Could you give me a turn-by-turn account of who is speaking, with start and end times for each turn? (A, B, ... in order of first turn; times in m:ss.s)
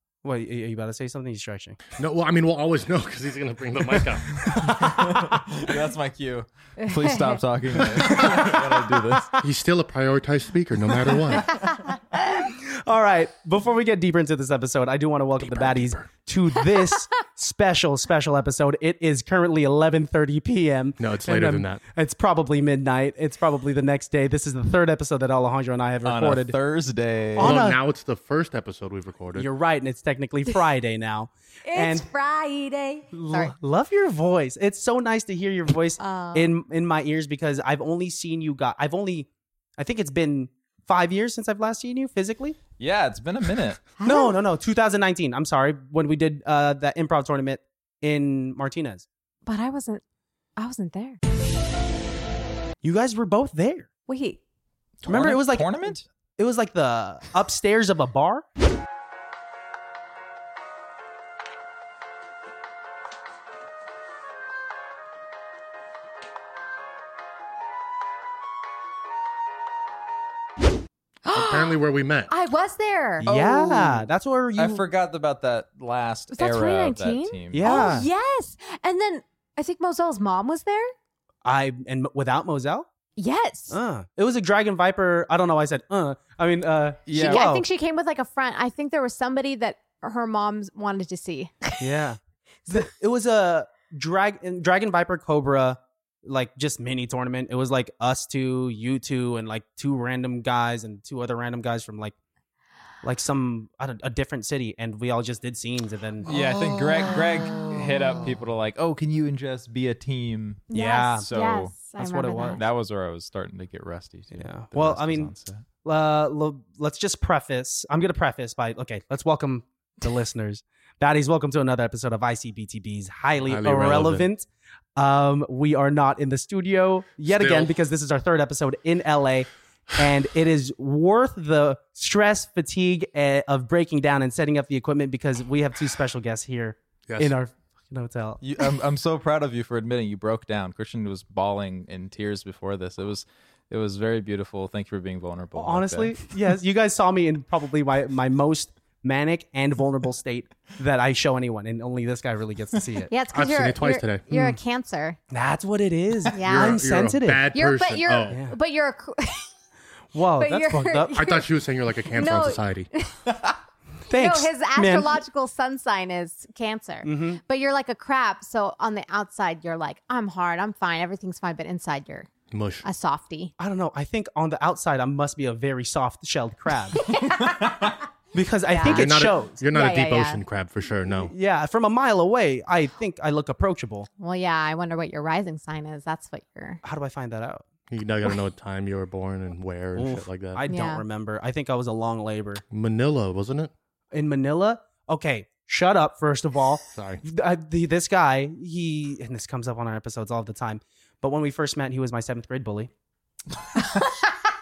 0:00.2-0:01.8 A
0:02.0-0:04.3 B
0:04.4-0:09.3 C
0:04.8-0:05.4 A
0:06.8-0:07.4 D
0:08.2-0:09.2 A
0:09.4-0:11.6 B
0:11.6-0:11.8 D
0:12.1-0:26.6 A
0:15.5-0:16.0 B
0:21.0-0:21.8 B
0:26.0-0:27.6 C
0:27.4-0:27.8 A
0:27.4-0:29.5 B
0:29.4-0:32.1 A
0:31.6-0:33.5 D
0:33.1-0:42.6 A
0:36.0-0:36.5 D
0:42.8-0:43.8 C
0:44.0-0:44.4 D
0:44.0-0:49.0 A
0:49.4-0:50.0 D
0:50.6-0:51.2 D
0:52.8-0:53.9 A
0:54.1-0:54.4 D
0:55.0-0:56.0 C
0:55.1-0:58.4 A
1:11.2-1:13.2 D
1:11.3-1:12.3 B
1:13.2-1:17.8 C
1:13.2-1:14.8 A
1:16.4-1:20.9 D
1:17.5-1:18.1 A
1:21.4-1:22.9 A
1:23.2-1:23.8 D
1:23.7-1:27.6 A
1:27.1-1:27.4 C
1:27.2-1:31.8 D
1:31.8-1:42.1 A
1:43.0-1:46.3 A
1:46.2-1:50.7 C
1:50.7-1:52.6 D
1:50.7-1:51.3 A
1:51.2-1:51.7 C
1:52.0-1:52.6 A
1:52.5-1:55.6 C
1:54.3-1:55.3 A
1:55.8-2:18.4 A
2:03.5-2:04.3 B
2:07.3-2:07.7 B
2:17.1-2:17.3 B
2:18.4-2:26.3 C
2:25.6-2:33.1 A
2:33.1-2:35.2 D
2:33.3-2:34.2 B
2:34.3-2:34.6 A
2:35.3-2:37.5 A
2:36.3-2:36.8 D
2:36.4-2:38.4 B
2:37.5-2:39.5 D
2:38.3-2:38.6 A
2:40.1-2:41.2 A
2:40.4-2:41.5 D
2:41.2-2:42.9 B
2:42.1-2:43.1 D
2:44.1-2:45.2 A
2:44.1-2:52.3 D
2:47.0-2:47.4 A
2:52.5-2:52.9 B
2:52.8-2:53.5 D
2:53.6-2:57.1 A
2:57.0-2:58.0 D
2:57.6-2:57.9 C
2:58.3-2:59.6 A
2:58.7-2:59.1 D
2:58.8-3:01.3 B
2:59.7-3:00.4 D
3:01.1-3:04.1 A
3:04.2-3:06.8 D
3:06.8-3:07.6 A
3:07.9-3:10.6 B
3:10.0-3:12.6 A
3:10.7-3:11.0 D
3:12.7-3:13.7 B
3:14.1-3:22.9 A
3:16.9-3:17.2 B